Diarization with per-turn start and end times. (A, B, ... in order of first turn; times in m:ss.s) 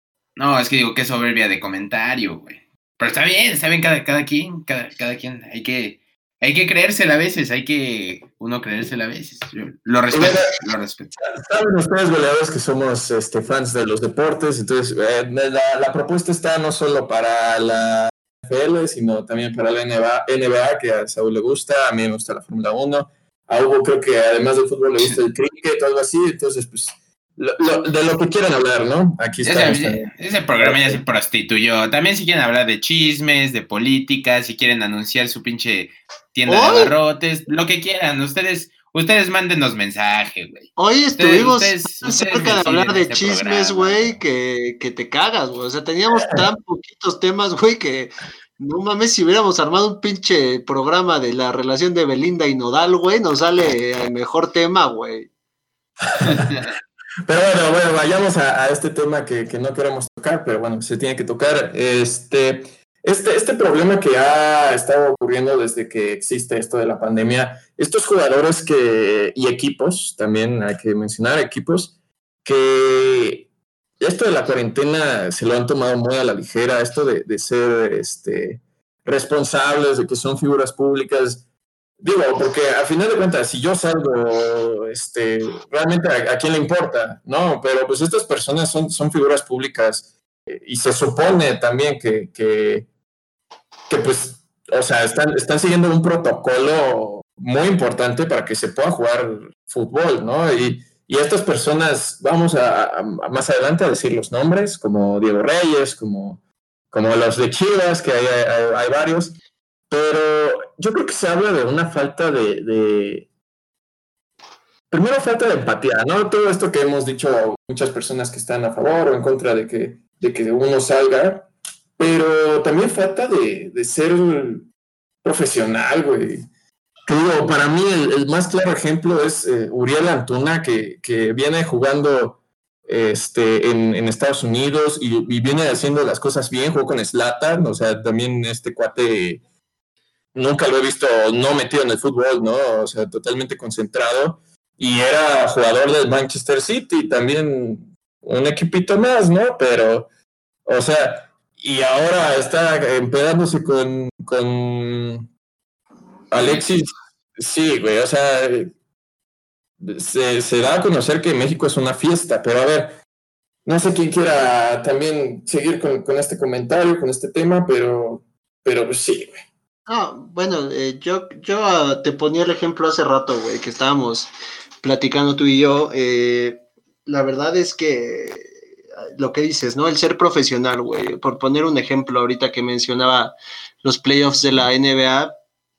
0:00.4-0:11.1 A
0:10.1-0:10.5 B
0:11.2-0:31.0 B
0:29.4-0:44.2 A
0:36.5-0:36.9 C
0:40.8-0:55.3 C
0:56.0-0:56.6 B
0:56.2-0:56.7 A
0:57.3-1:11.9 B
1:12.4-1:13.5 B
1:14.0-1:21.4 B
1:22.0-1:32.8 B
1:33.9-1:46.4 B
1:46.9-1:49.4 B
1:49.9-1:53.3 B
1:54.9-2:04.7 B
2:05.2-2:06.4 B
2:07.0-2:19.4 B
2:20.3-2:30.1 B
2:30.6-2:35.3 B
2:36.3-2:38.7 B
2:36.3-2:36.7 A
2:39.8-2:43.0 B
2:43.6-2:49.4 B
2:49.9-2:54.3 C
2:54.8-2:58.5 C
2:59.2-3:05.3 C